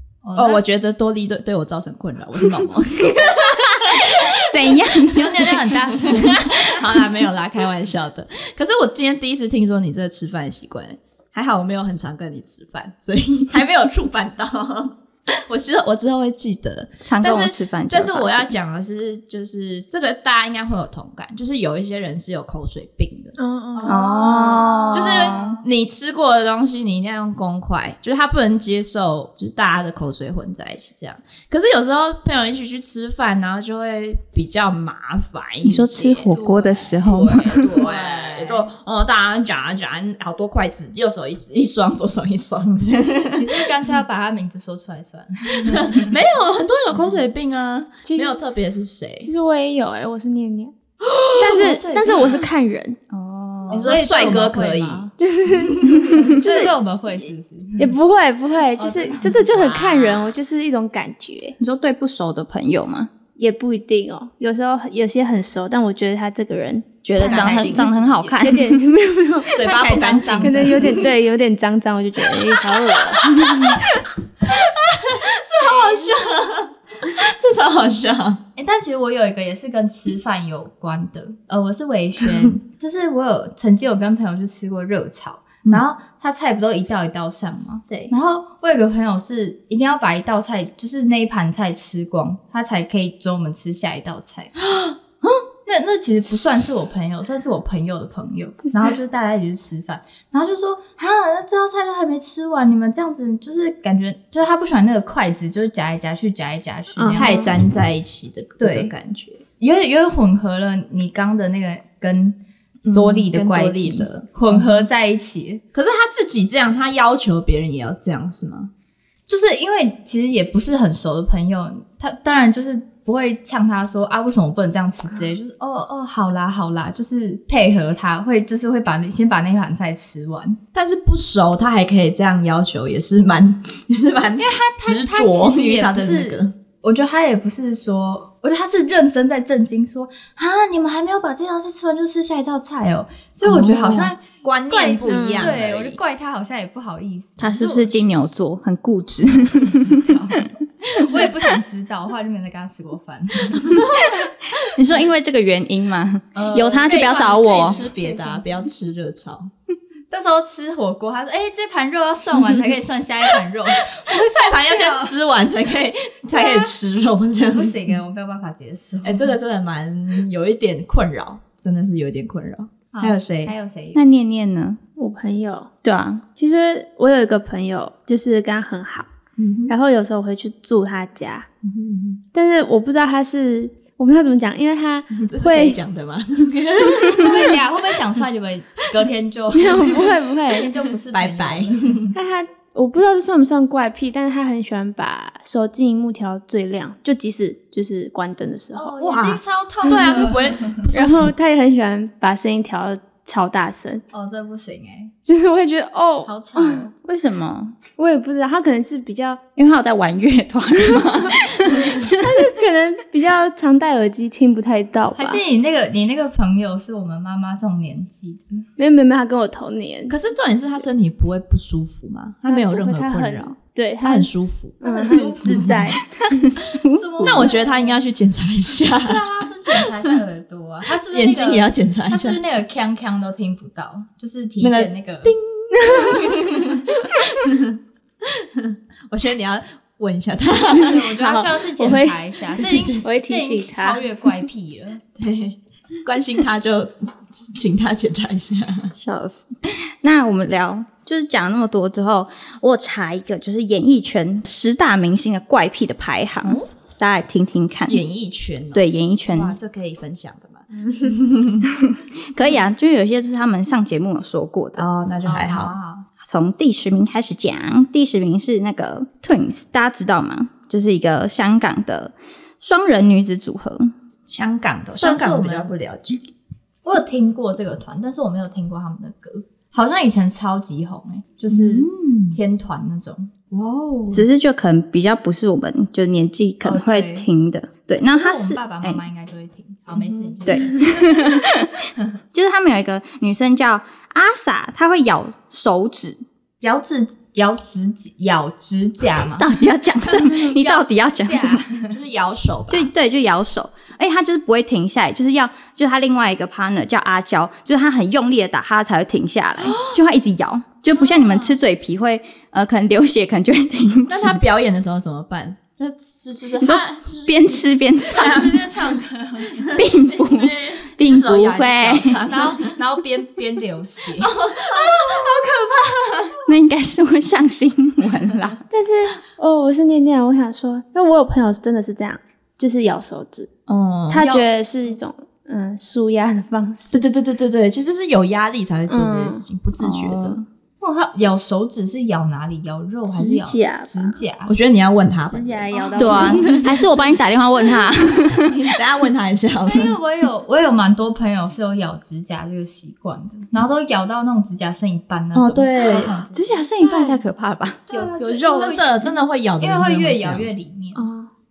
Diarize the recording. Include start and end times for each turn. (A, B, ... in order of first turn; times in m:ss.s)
0:00.2-0:00.6 A
0:00.3-0:05.0 B
0:03.2-0:05.8 C
0:05.1-0:06.9 A
0:05.9-0:23.3 B
0:17.0-0:18.5 C
0:23.4-0:24.0 D
0:23.8-0:25.6 A
0:23.8-0:25.6 C
0:24.2-0:36.4 B
0:35.6-0:37.8 C
0:36.3-0:38.7 A
0:37.0-0:43.7 B
0:43.4-0:46.1 A
0:45.7-0:49.3 B
0:48.0-0:48.4 D
0:49.2-0:50.7 D
0:51.0-0:52.4 B
0:51.4-0:53.0 D
0:53.1-0:54.0 C
0:53.7-0:55.1 A
0:53.7-0:56.2 B
0:55.2-0:56.7 D
0:56.2-0:58.0 A
0:57.8-1:01.6 D
0:58.8-0:59.4 A
0:59.4-1:00.3 B
1:01.6-1:03.1 C
1:03.4-1:06.9 D
1:07.0-1:08.8 C
1:07.2-1:08.4 B
1:07.2-1:07.9 A
1:08.4-1:13.8 D
1:09.5-1:11.1 B
1:09.6-1:11.0 A
1:12.4-1:13.8 B
1:14.4-1:18.4 B
1:15.5-1:16.2 A
1:18.6-1:34.5 A
1:35.6-1:47.5 A
1:47.0-1:47.5 D
1:47.0-1:49.4 B
1:48.6-1:48.9 A
1:49.6-1:52.4 A
1:52.8-1:54.7 B
1:52.9-1:55.6 A
1:55.7-1:58.7 B
1:59.3-2:10.6 A
2:10.7-2:16.5 B
2:14.4-2:27.9 A
2:23.4-2:26.0 B
2:25.0-2:25.6 D
2:27.4-2:30.1 C
2:29.4-2:33.9 A
2:34.0-2:37.8 C
2:36.3-2:38.7 A
2:36.8-2:39.5 B
2:40.1-2:45.1 A
2:44.0-2:48.0 B
2:46.3-2:46.7 A
2:47.5-2:49.4 A
2:49.0-2:53.5 B
2:52.9-2:54.0 A
2:53.9-2:54.8 C
2:55.0-2:55.7 D
2:55.8-2:56.2 C
2:56.4-2:59.1 D
2:59.4-2:59.7 B
2:59.7-3:01.5 D
3:01.6-3:02.2 B
3:02.3-3:05.8 D
3:05.2-3:07.6 B
3:07.2-3:12.1 A
3:09.5-3:10.7 D
3:11.1-3:12.1 B
3:12.1-3:18.9 D
3:18.8-3:20.8 A
3:19.0-3:21.3 B
3:20.9-3:24.0 D
3:24.1-3:25.1 A
3:25.2-3:26.8 D
3:26.2-3:26.9 A
3:27.0-3:27.8 C
3:28.0-3:29.4 D
3:29.6-3:32.5 C
3:31.9-3:35.4 D
3:35.2-3:38.6 A
3:38.8-3:40.2 D
3:40.1-3:45.9 B
3:42.5-3:46.0 D
3:44.8-3:45.9 A
3:46.3-3:47.5 C
3:46.9-3:48.0 A
3:47.2-3:50.1 B
3:49.0-3:55.3 A
3:50.9-3:52.4 B
3:54.6-4:01.1 B
3:55.9-3:56.2 D
4:00.7-4:05.0 A
4:00.9-4:02.2 D
4:02.6-4:03.0 B
4:02.7-4:04.0 D
4:05.2-4:08.9 B
4:09.0-4:18.0 C
4:17.9-4:21.7 B
4:18.7-4:19.6 C
4:21.6-4:24.9 C
4:24.8-4:25.8 B
4:25.2-4:26.0 A
4:26.2-4:33.9 C
4:34.3-4:36.2 B
4:34.9-4:35.7 A
4:36.8-4:43.3 A
4:41.5-4:42.4 B
4:43.5-4:44.2 B
4:44.1-4:49.0 C
4:46.6-4:47.3 A
4:48.1-4:51.4 A
4:49.9-4:50.7 B
4:50.4-4:56.2 C
4:56.6-4:59.5 A
4:59.4-5:01.6 C
5:00.3-5:01.9 A
5:01.9-5:02.9 B
5:02.7-5:14.4 C
5:09.6-5:09.9 B
5:10.9-5:11.5 A
5:14.1-5:19.0 B
5:16.6-5:18.4 C
5:18.2-5:19.7 A
5:19.5-5:22.8 B
5:19.7-5:22.2 C
5:22.3-5:24.4 A
5:24.2-5:26.5 B
5:26.4-5:28.6 C
5:28.7-5:33.5 D
5:33.7-5:34.4 B
5:34.1-5:37.0 D
5:36.9-5:40.4 B
5:38.9-5:39.4 D
5:39.8-5:40.4 C
5:40.8-5:44.5 A
5:43.1-5:44.2 D
5:44.4-5:46.7 B
5:45.2-5:46.6 D
5:45.7-5:46.4 A
5:46.0-5:48.7 C
5:48.4-5:49.9 B
5:49.6-5:57.2 A
5:55.3-5:56.2 B
5:56.3-5:57.8 C
5:57.9-6:01.0 A
5:57.9-5:58.8 D
5:58.4-6:00.5 B
6:00.9-6:01.3 D